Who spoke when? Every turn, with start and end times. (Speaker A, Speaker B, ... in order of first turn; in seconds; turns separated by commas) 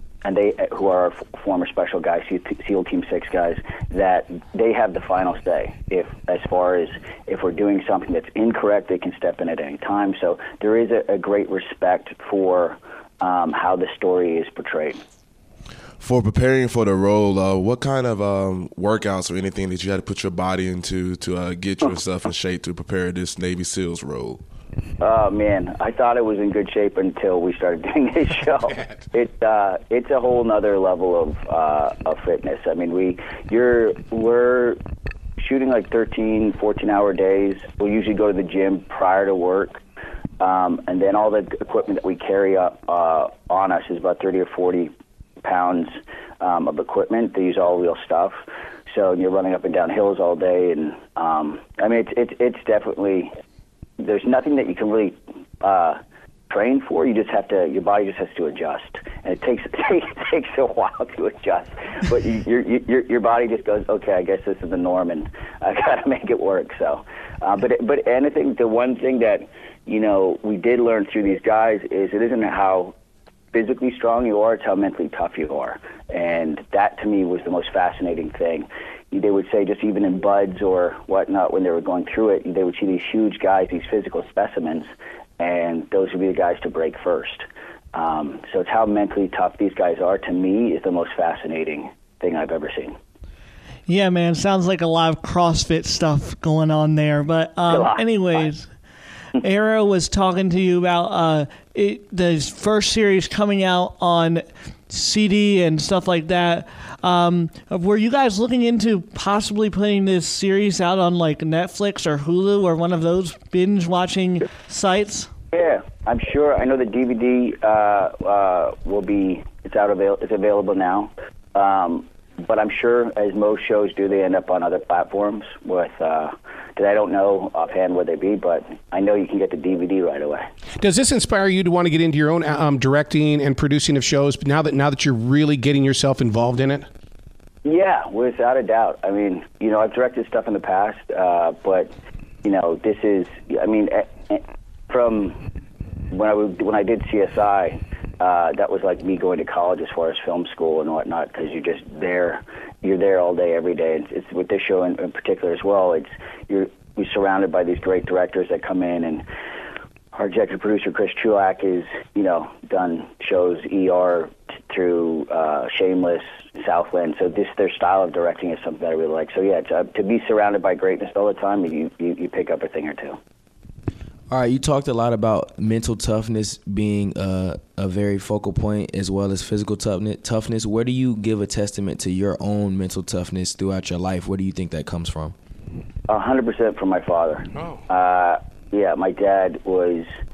Speaker A: 0.2-15.0, Speaker B: 16.0-24.4, Speaker A: 25.0-34.8, Speaker A: 35.4-39.8, Speaker A: 40.4-44.9, Speaker A: 45.4-53.3, Speaker A: 54.0-72.9, Speaker A: 73.5-93.0, Speaker C: 93.9-98.7, Speaker A: 97.7-98.5, Speaker C: 99.4-115.3, Speaker A: 115.5-130.5, Speaker D: 130.8-136.9, Speaker A: 137.7-141.9, Speaker A: 142.4-145.4, Speaker A: 146.1-159.2, Speaker A: 160.1-173.2, Speaker E: 174.3-185.3, Speaker A: 186.1-190.1, Speaker D: 187.6-187.8